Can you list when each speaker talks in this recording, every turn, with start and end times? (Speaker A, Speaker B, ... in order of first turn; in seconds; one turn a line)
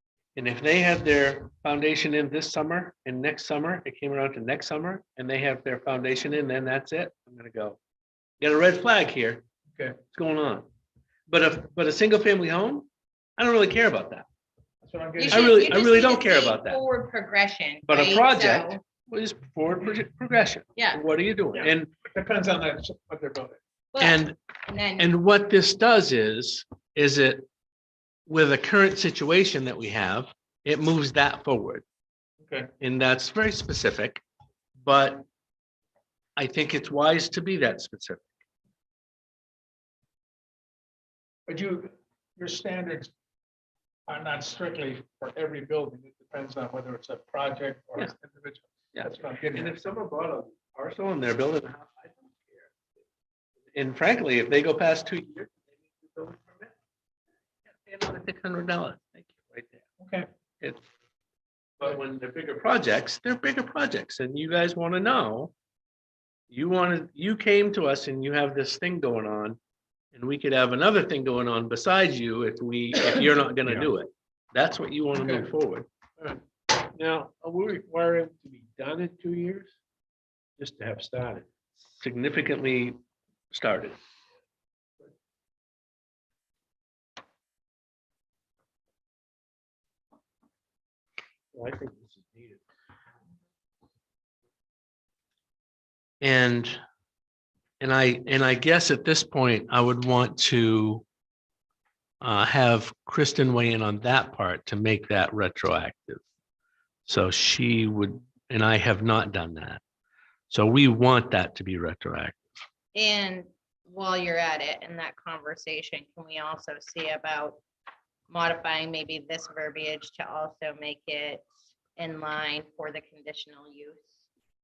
Speaker A: 0.3-7.8
Speaker A: 8.4-9.4
Speaker B: 9.7-10.0
Speaker A: 10.1-10.6
Speaker A: 11.3-14.2
Speaker B: 14.8-15.6
Speaker C: 15.2-18.8
Speaker A: 15.2-16.8
Speaker A: 17.9-21.9
Speaker C: 20.8-21.0
Speaker B: 21.6-23.6
Speaker C: 23.9-25.1
Speaker A: 24.0-24.4
Speaker A: 25.0-27.4
Speaker A: 28.3-31.8
Speaker B: 32.4-32.7
Speaker A: 32.8-34.2
Speaker A: 34.8-35.2
Speaker A: 36.4-38.3
Speaker B: 41.5-43.1
Speaker B: 44.1-49.8
Speaker A: 48.9-52.9
Speaker A: 53.7-56.7
Speaker A: 57.7-59.8
Speaker B: 60.0-60.3
Speaker A: 61.8-65.5
Speaker A: 66.5-69.6
Speaker A: 70.1-75.9
Speaker B: 75.1-75.4
Speaker D: 76.2-79.7
Speaker D: 80.6-81.5
Speaker A: 81.8-83.0
Speaker A: 83.5-84.0
Speaker D: 91.5-92.6
Speaker A: 96.2-96.8
Speaker A: 97.8-101.0
Speaker A: 102.2-106.2
Speaker A: 107.0-109.8
Speaker A: 110.5-112.5
Speaker C: 112.9-117.6
Speaker C: 118.3-124.2